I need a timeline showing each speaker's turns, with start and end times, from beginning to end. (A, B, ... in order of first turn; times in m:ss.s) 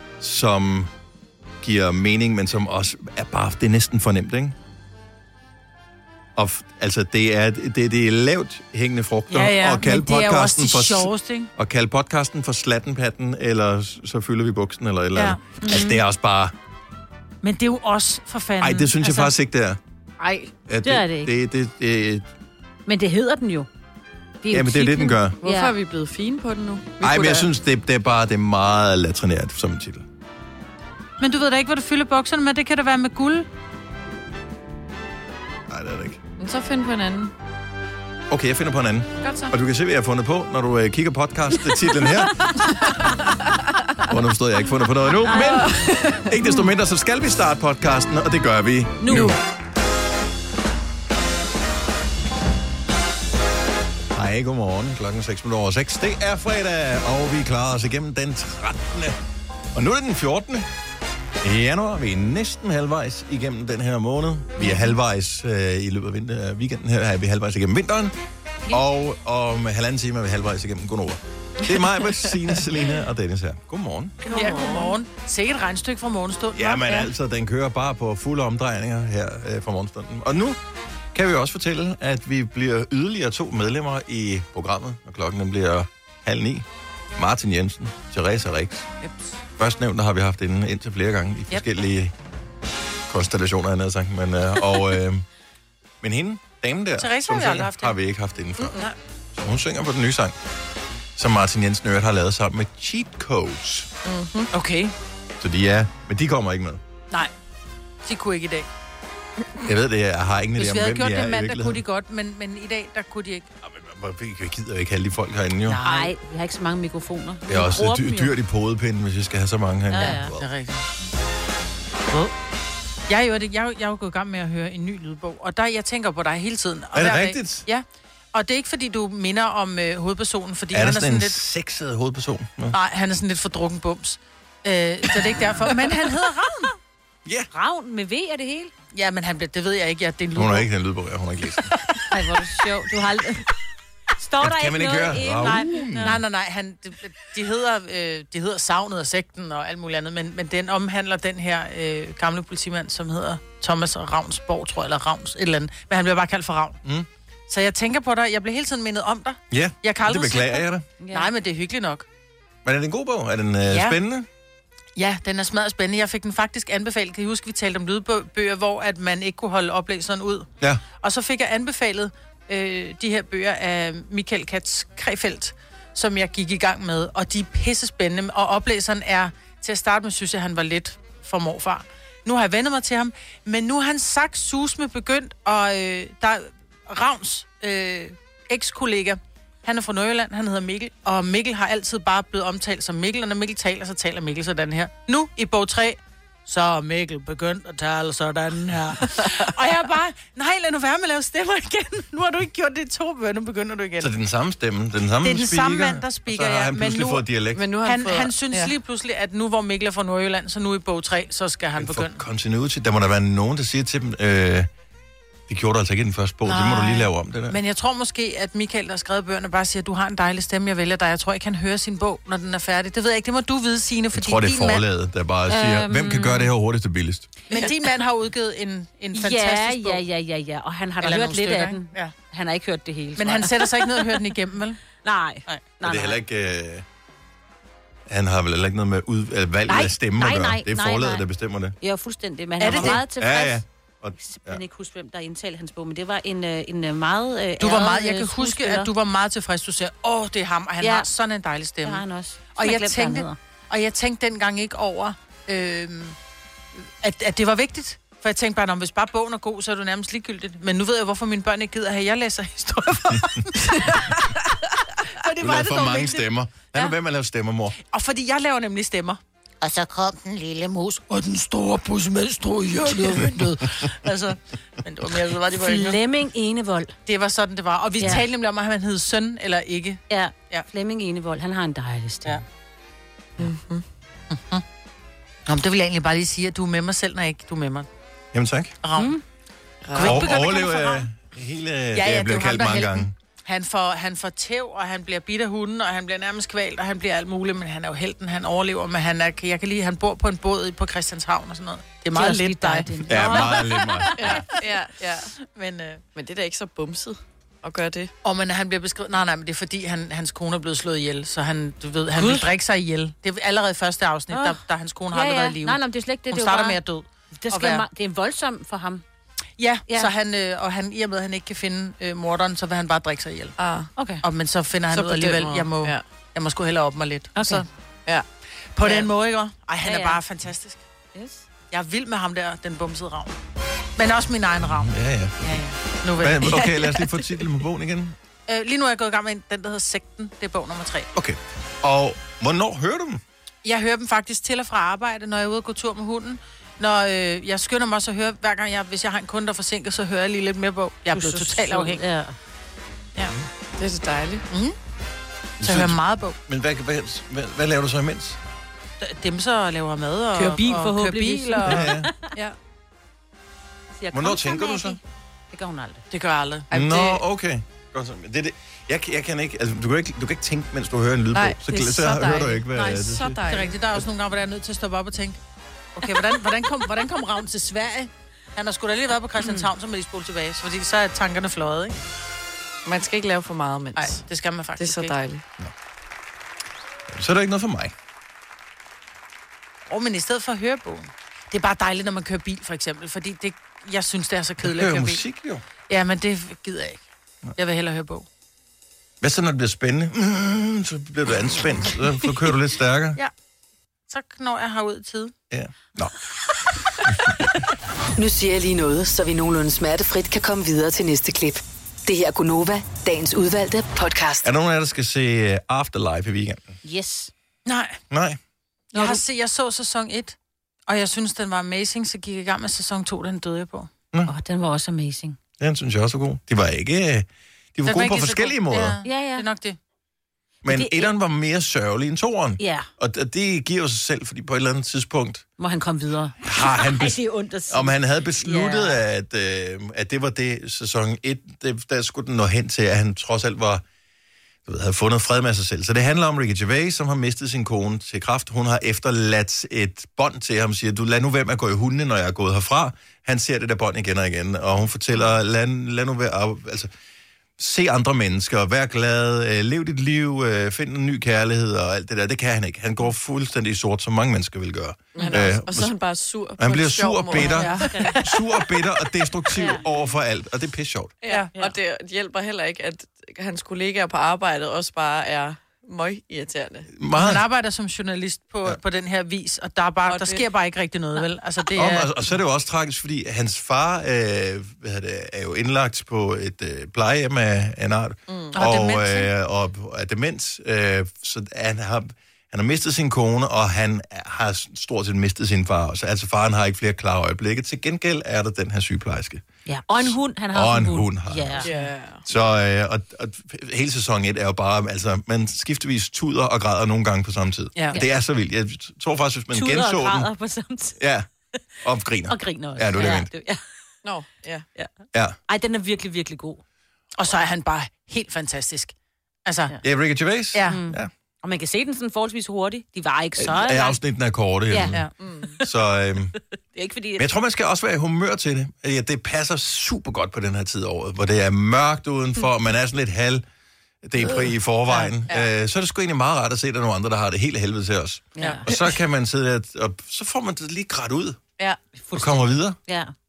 0:00.2-0:00.9 A
0:01.6-0:04.6 A
0:06.4-0:16.5 A
0:09.3-0:11.5 B
0:15.2-0:15.9 B
0:15.6-0:15.9 C
0:17.4-0:19.3 B
0:18.6-0:19.8 A
0:20.2-0:21.3 C
0:20.7-0:22.3 A
0:22.9-0:23.7 C
0:24.4-0:25.8 C
0:24.5-0:25.4 A
0:25.4-0:27.5 D
0:27.0-0:30.1 A
0:31.2-0:33.5 B
0:35.7-0:36.2 A
0:36.4-0:37.3 D
0:38.3-0:42.5 A
0:44.1-0:49.4 A
0:45.3-0:45.7 C
0:45.3-0:46.2 D
0:49.0-0:49.4 C
0:54.1-0:59.2 A
0:59.7-1:00.7 A
1:01.4-1:08.2 A
1:08.7-1:14.2 A
1:14.3-1:17.1 B
1:16.6-1:20.6 A
1:21.1-1:26.6 A
1:27.2-1:28.9 A
1:29.6-1:32.1 A
1:33.1-1:35.2 A
1:36.0-1:38.8 A
1:37.0-1:38.0 B
1:39.3-1:40.4 A
1:41.2-1:43.9 A
1:44.0-1:44.5 D
1:44.5-1:44.9 B
1:45.4-1:46.8 A
1:48.0-1:48.7 B
1:49.6-1:51.8 A
1:50.6-1:53.5 B
1:53.6-1:55.8 A
1:55.7-1:56.1 B
1:55.8-1:58.3 C
1:57.5-2:00.4 A
1:59.9-2:00.3 C
2:00.3-2:00.8 B
2:03.1-2:11.4 B
2:06.9-2:07.7 A
2:10.7-2:12.8 A
2:12.7-2:16.7 B
2:17.2-2:17.5 A
2:17.5-2:18.7 C
2:18.9-2:20.7 B
2:20.4-2:22.0 A
2:22.1-2:23.5 C
2:24.2-2:26.2 C
2:24.4-2:26.2 A
2:26.0-2:36.8 B
2:37.5-2:42.1 B
2:39.5-2:40.9 A
2:41.0-2:41.3 C
2:42.6-2:44.3 A
2:43.7-2:44.0 B
2:45.0-2:50.5 B
2:51.0-3:24.1 B
3:24.0-3:27.6 A
3:25.2-3:27.3 B
3:27.6-3:28.7 D
3:27.8-3:32.2 B
3:31.8-3:34.7 A
3:35.5-3:37.6 A
3:36.5-3:44.8 B
3:44.1-3:47.4 A
3:45.5-3:46.5 C
3:47.5-3:50.0 B
3:49.1-3:54.3 C
3:51.0-3:52.1 B
3:53.2-3:54.8 B
3:55.0-3:56.2 C
3:55.8-3:56.8 A
3:58.1-4:01.8 A
3:59.7-4:01.2 C
4:01.8-4:03.6 C
4:02.6-4:03.0 B
4:02.6-4:04.6 A
4:04.2-4:08.9 C
4:07.6-4:12.0 B
4:10.8-4:11.1 C
4:11.8-4:13.4 C
4:12.6-4:16.2 B
4:17.0-4:24.4 B
4:25.0-4:26.9 B
4:25.4-4:27.8 A
4:27.9-4:29.2 B
4:29.6-4:31.0 C
4:31.1-4:36.0 B
4:35.5-4:36.9 C
4:37.1-4:40.7 B
4:38.0-4:38.2 C
4:40.1-4:42.4 C
4:43.4-4:43.8 D
4:44.3-4:44.6 B
4:45.5-4:47.9 B
4:48.3-4:48.8 A
4:48.8-4:49.2 B
4:49.0-4:49.2 C
4:49.8-4:50.2 D
4:49.9-4:51.1 B
4:50.0-4:53.1 A
4:51.9-5:04.2 B
5:02.1-5:04.3 C
5:03.1-5:04.4 A
5:04.2-5:05.3 D
5:05.4-5:06.0 B
5:06.2-5:08.1 D
5:08.2-5:17.8 B
5:12.2-5:12.5 C
5:14.3-5:16.8 C
5:17.4-5:19.0 C
5:19.6-5:23.6 B
5:23.6-5:23.9 D
5:24.0-5:24.2 C
5:24.2-5:27.7 B
5:24.9-5:26.0 D
5:27.4-5:27.6 C
5:28.8-5:30.8 B
5:29.8-5:30.2 C
5:31.2-5:31.4 C
5:31.7-5:33.4 B
5:34.0-5:36.8 B
5:34.7-5:35.6 A
5:36.2-5:38.2 A
5:38.5-5:41.1 B
5:41.1-5:43.2 A
5:43.6-5:52.0 B
5:51.1-5:52.4 C
5:53.8-5:54.4 D
5:54.5-5:54.8 B
5:55.6-5:58.4 A
5:55.6-5:56.4 B
5:59.0-6:02.6 B
6:00.3-6:02.3 C
6:01.6-6:02.1 A
6:04.0-6:05.0 C
6:04.1-6:05.0 A
6:05.5-6:06.0 C
6:06.1-6:06.7 B
6:06.7-6:07.2 D
6:06.7-6:13.4 A
6:11.3-6:13.7 D
6:13.5-6:15.4 B
6:16.0-6:22.0 B
6:19.4-6:19.7 C
6:22.9-6:24.2 D
6:24.0-6:25.2 B
6:24.8-6:25.4 D
6:27.1-6:27.9 A
6:29.9-6:35.2 B
6:34.6-6:35.6 A
6:35.9-6:37.0 B
6:37.6-6:38.3 B
6:39.2-6:43.2 A
6:44.1-6:45.3 B
6:45.5-6:46.1 A
6:48.2-6:54.5 E
6:54.4-6:56.8 A
6:56.8-6:57.3 C
6:57.7-6:58.0 B
6:58.1-6:58.4 A
6:58.9-7:00.4 B
6:59.0-6:59.2 C
7:00.9-7:03.9 B
7:04.3-7:05.4 C
7:05.6-7:09.0 A
7:07.8-7:09.8 B
7:09.0-7:09.5 C
7:10.6-7:15.5 A
7:10.7-7:11.1 C
7:12.6-7:12.9 C
7:15.6-7:19.0 C
7:16.4-7:23.8 A
7:24.7-7:36.9 A
7:37.6-7:46.0 A
7:45.2-7:47.5 D
7:45.2-7:45.5 B
7:46.6-7:51.2 A
7:47.3-7:48.2 B
7:47.5-7:48.2 C
7:49.5-7:49.8 C
7:51.2-7:56.9 D
7:51.3-7:51.7 B
7:57.0-7:57.4 A
7:57.2-8:02.1 B
8:00.1-8:00.5 D
8:01.8-8:21.7 A
8:08.3-8:08.6 D
8:08.5-8:09.3 B
8:19.7-8:21.7 C
8:21.6-8:22.2 D
8:22.2-8:30.3 A
8:29.5-8:31.0 C
8:31.0-8:31.3 A
8:31.8-8:33.3 A
8:32.3-8:33.6 C
8:34.0-8:34.7 D
8:35.1-8:35.4 A
8:35.5-8:36.6 C
8:37.2-8:39.0 B
8:39.5-8:39.8 B
8:39.8-8:41.1 A
8:40.5-8:40.8 B
8:40.7-8:44.0 C
8:43.4-8:45.1 A
8:44.7-8:45.0 C
8:44.8-8:45.1 B
8:45.2-8:45.5 D
8:45.6-8:46.4 A
8:46.8-8:47.3 C
8:47.2-8:53.4 A
8:54.0-9:01.4 A
8:58.4-8:58.7 C
9:01.9-9:03.1 C
9:02.1-9:02.8 A